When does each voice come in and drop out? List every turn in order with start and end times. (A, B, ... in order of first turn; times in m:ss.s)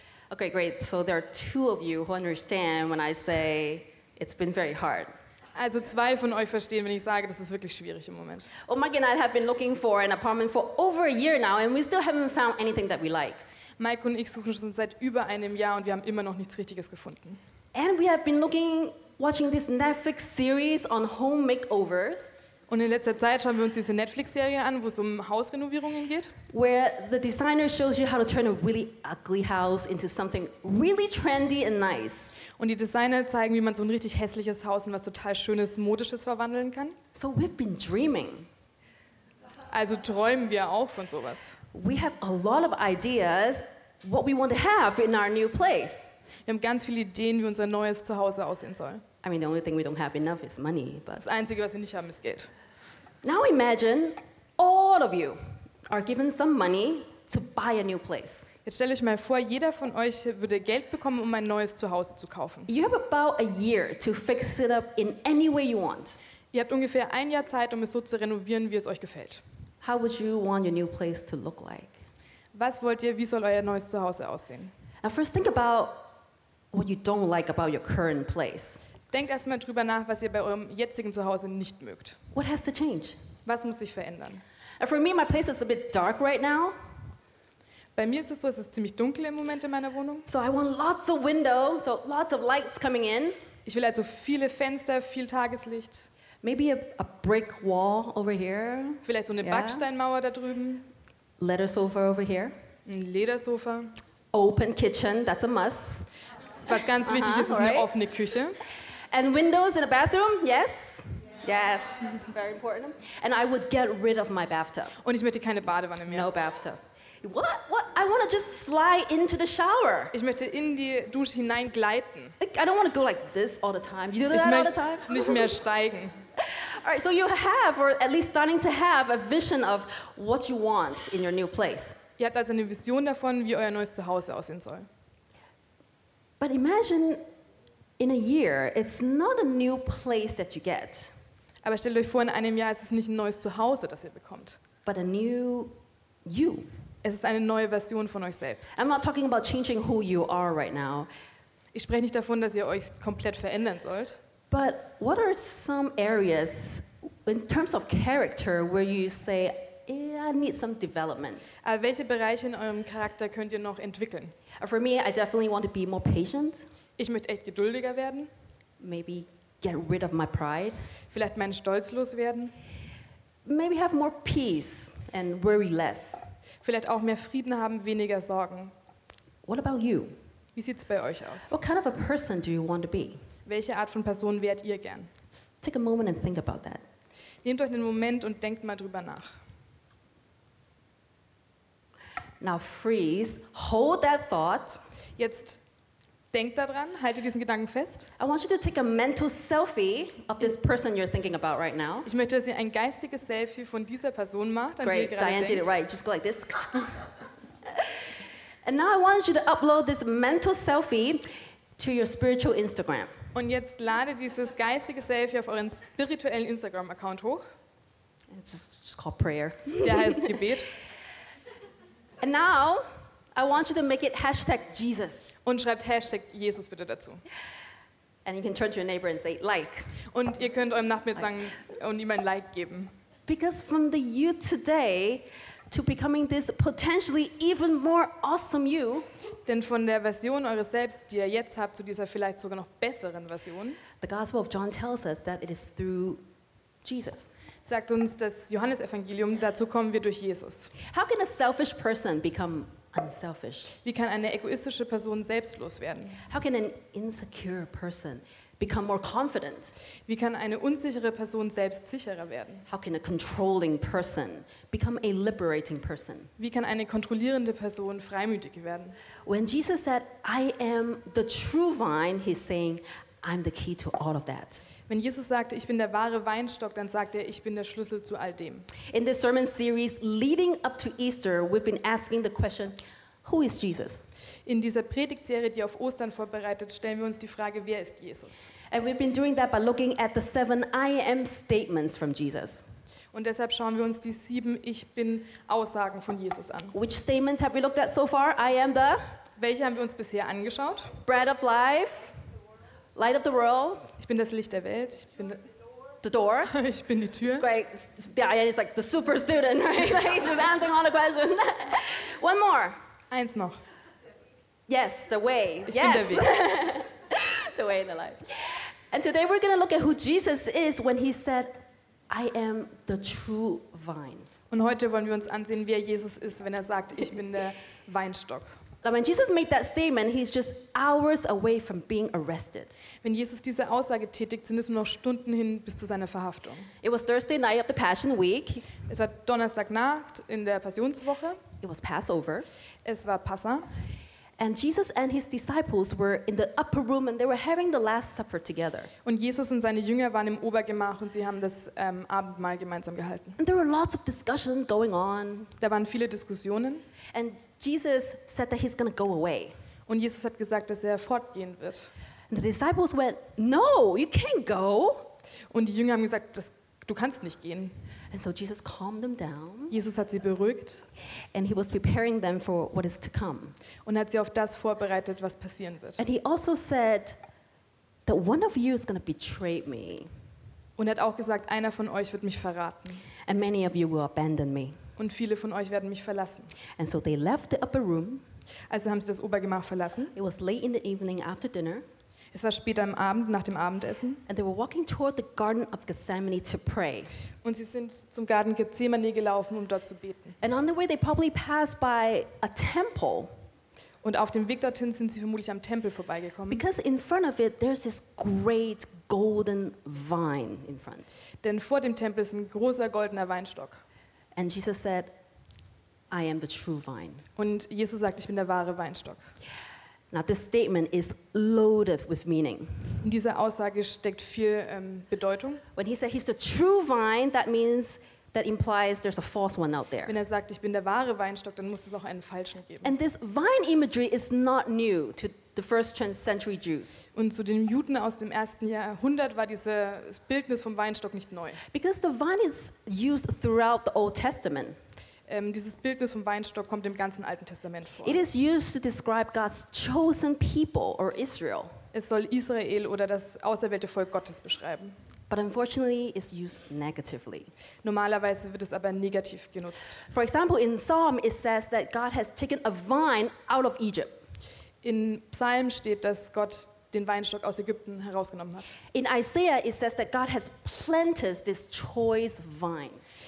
0:00.3-0:05.1 A
0:05.6-0:08.5 B
0:08.7-0:13.5 A
0:13.8-0:17.4 B
0:17.7-0:22.2 A
0:22.7-0:26.3 B
0:26.5-0:32.3 A
0:32.6-0:37.0 B
0:37.1-0:38.5 A
0:39.7-0:41.6 B
0:41.7-0:46.1 A
0:46.5-0:49.0 B
0:49.2-0:51.2 A
0:51.2-0:52.5 B
0:53.2-0:58.4 A
0:58.7-1:02.7 B
1:02.7-1:06.2 A
1:06.5-1:09.4 B
1:09.8-1:12.0 A
1:12.5-1:14.7 B
1:15.0-1:16.1 A
1:16.7-1:18.8 A
1:19.1-1:22.2 B
1:22.3-1:23.2 A
1:23.5-1:24.4 B
1:24.8-1:26.8 A
1:28.0-1:30.3 B
1:30.3-1:33.4 A
1:33.7-1:36.1 B
1:36.4-1:39.9 A
1:39.0-1:40.9 B
1:41.4-1:42.5 A
1:42.9-1:43.9 B
1:44.3-1:46.1 A
1:46.7-1:48.6 B
1:47.0-1:47.9 A
1:49.1-1:55.0 A
1:55.0-1:56.3 B
1:56.1-2:00.1 A
2:00.1-2:02.4 B
2:02.4-2:05.5 A
2:04.3-2:06.1 B
2:06.4-2:12.0 A
2:12.2-2:14.9 B
2:16.4-2:17.2 A
2:18.0-2:21.1 A
2:21.6-2:24.6 B
2:24.8-2:26.7 A
2:27.0-2:28.8 B
2:28.8-2:31.1 A
2:31.7-2:34.2 B
2:34.5-2:41.5 A
2:41.6-2:44.4 B
2:44.6-2:46.6 A
2:47.0-2:48.3 B
2:48.8-2:50.8 A
2:51.1-2:52.5 B
2:53.4-2:56.2 A
2:56.6-2:58.7 B
2:59.4-3:00.2 A
3:00.6-3:01.5 B
3:01.5-3:03.2 A
3:03.5-3:05.1 B
3:05.6-3:06.8 A
3:07.4-3:09.4 B
3:12.4-3:14.8 A
3:15.2-3:15.6 B
3:16.3-3:18.1 B
3:18.2-3:22.1 A
3:22.0-3:25.7 B
3:24.8-3:27.0 A
3:28.6-3:33.1 A
3:33.4-3:37.4 B
3:38.3-3:40.3 A
3:39.8-3:40.7 B
3:42.2-3:45.3 A
3:45.4-3:47.2 B
3:48.2-3:50.0 A
3:50.1-3:52.9 B
3:53.3-3:59.1 A
3:59.5-4:03.8 B
4:04.0-4:06.2 A
4:06.8-4:07.3 A
4:07.6-4:10.7 B
4:10.8-4:13.7 A
4:13.8-4:16.2 B
4:16.3-4:19.7 A
4:20.1-4:22.7 B
4:22.7-4:26.3 A
4:26.4-4:29.0 B
4:29.3-4:34.6 A
4:34.9-4:38.7 B
4:38.9-4:44.0 A
4:44.5-4:48.5 B
4:48.7-4:52.6 A
4:53.1-4:56.8 B
4:56.7-4:59.0 A
4:59.4-5:01.0 B
5:01.1-5:02.1 A
5:03.0-5:03.9 A
5:04.0-5:05.4 B
5:06.0-5:06.5 A
5:06.5-5:07.5 B
5:07.4-5:12.8 A
5:13.1-5:13.6 B
5:14.7-5:24.3 A
5:15.7-5:16.4 B
5:24.5-5:28.6 B
5:28.8-5:32.8 A
5:33.0-5:36.7 B
5:36.8-5:38.7 A
5:38.9-5:41.4 B
5:41.6-5:42.5 A
5:42.8-5:43.7 B
5:44.4-5:48.9 A
5:49.0-5:53.4 B
5:53.4-5:55.5 A
5:55.6-5:56.8 B
5:57.1-5:59.5 A
5:59.9-6:01.9 B
6:02.3-6:05.1 A
6:05.5-6:07.7 B
6:08.1-6:09.7 A
6:09.7-6:10.8 B
6:11.3-6:13.6 A
6:13.9-6:16.0 B
6:16.0-6:17.2 A
6:18.1-6:20.1 A
6:20.8-6:22.9 B
6:23.3-6:24.8 A
6:25.0-6:26.5 B
6:26.8-6:28.2 A
6:28.7-6:30.1 B
6:30.2-6:31.8 A
6:32.3-6:34.2 B
6:34.3-6:37.1 A
6:37.4-6:40.4 B
6:40.4-6:43.3 A
6:44.0-6:46.6 B
6:46.5-6:51.1 A
6:51.4-6:53.8 B
6:54.4-6:55.2 A
6:56.1-6:57.2 A
6:57.4-6:59.2 B
7:00.1-7:02.9 A
7:03.0-7:05.6 B
7:05.8-7:10.1 A
7:10.1-7:12.9 B
7:12.8-7:17.0 A
7:17.2-7:21.6 B
7:21.7-7:24.8 A
7:25.3-7:28.2 B
7:28.0-7:31.8 A
7:31.9-7:34.9 B
7:35.3-7:37.5 A
7:37.8-7:40.0 B
7:40.1-7:44.2 A
7:44.8-7:48.8 B
7:48.9-7:53.0 A